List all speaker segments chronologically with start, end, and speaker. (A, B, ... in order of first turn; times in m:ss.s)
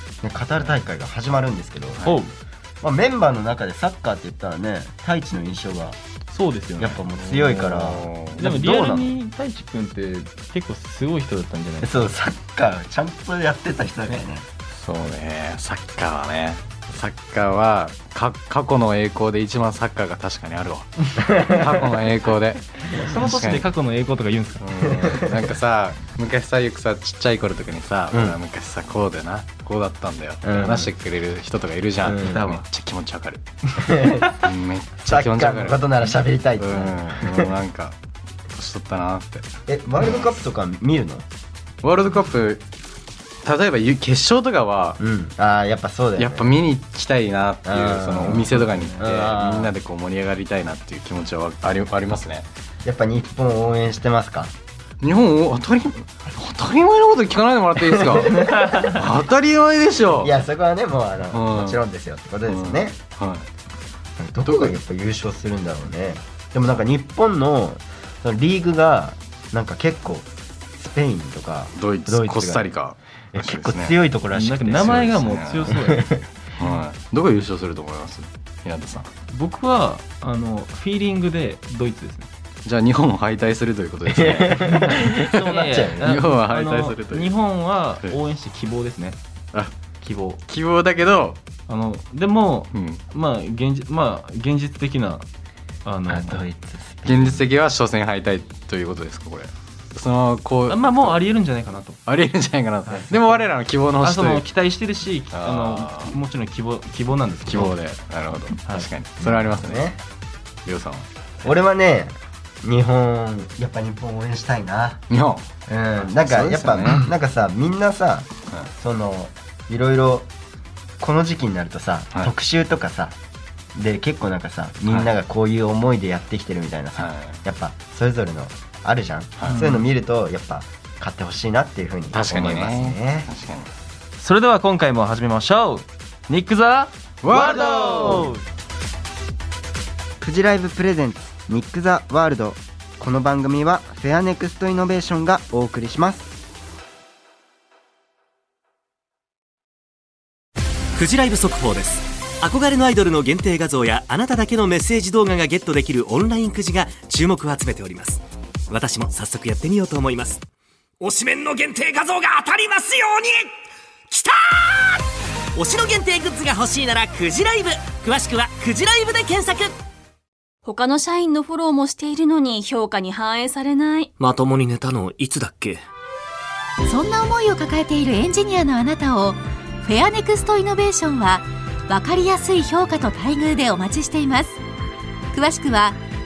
0:00.2-0:02.1 A
0:02.0-0:02.3 B
0:02.8-0:06.0 A
0:06.3-0:07.0 B
0:06.8-0:09.2 A
0:07.2-0:08.4 C
0:08.4-0:12.1 B
0:11.8-0:14.5 A
0:14.7-0:23.7 C
0:23.0-0:24.7 B
0:24.6-0:33.4 C
0:28.1-0:28.4 A
0:30.4-0:30.9 A
0:32.0-0:32.4 A
0:32.2-0:32.6 B
0:33.8-0:34.5 A
0:34.4-0:35.9 C
0:35.1-0:37.5 A
0:36.6-0:38.0 C
0:38.5-0:39.4 C
0:39.7-0:41.2 A
0:40.0-0:40.3 C
0:41.8-0:42.6 C
0:43.4-0:45.0 C
0:45.0-0:46.6 A
0:46.2-0:52.5 C
0:47.7-0:49.7 A
0:52.8-0:54.5 A
0:55.0-1:00.4 C
0:57.9-0:58.8 A
1:00.2-1:03.0 A
1:01.3-1:01.8 C
1:02.5-1:03.5 C
1:04.2-1:12.7 A
1:04.4-1:04.8 C
1:11.8-1:14.0 C
1:13.3-1:15.2 A
1:14.3-1:16.2 B
1:14.7-1:15.7 C
1:15.7-1:16.2 A
1:16.6-1:19.1 C
1:19.3-1:22.3 B
1:22.6-1:25.4 C
1:24.1-1:26.2 A
1:24.9-1:29.2 B
1:26.0-1:27.4 C
1:30.0-1:30.4 B
1:30.5-1:31.4 C
1:31.7-1:35.2 B
1:32.7-1:33.0 C
1:35.8-1:36.4 B
1:36.1-1:37.5 A
1:37.0-1:41.2 C
1:40.7-1:42.0 B
1:42.1-1:44.5 C
1:42.9-1:43.3 B
1:44.0-1:47.8 B
1:45.3-1:46.2 C
1:47.5-1:49.9 C
1:49.2-1:50.0 A
1:50.7-1:51.1 C
1:51.4-1:55.0 A
1:55.1-1:55.5 C
1:55.7-2:00.3 A
1:56.0-1:57.1 C
2:01.0-2:03.2 A
2:03.8-2:13.3 A
2:04.9-2:05.1 C
2:07.0-2:07.4 C
2:09.4-2:09.9 B
2:12.1-2:13.7 C
2:14.2-2:18.4 B
2:17.2-2:18.2 C
2:17.4-2:18.3 A
2:20.2-2:26.3 A
2:31.0-2:40.4 D
2:41.0-2:43.5 D
2:44.1-2:49.7 D
2:50.7-2:54.1 E
2:54.2-2:55.8 D
2:56.8-3:04.6 F
3:05.3-3:06.0 F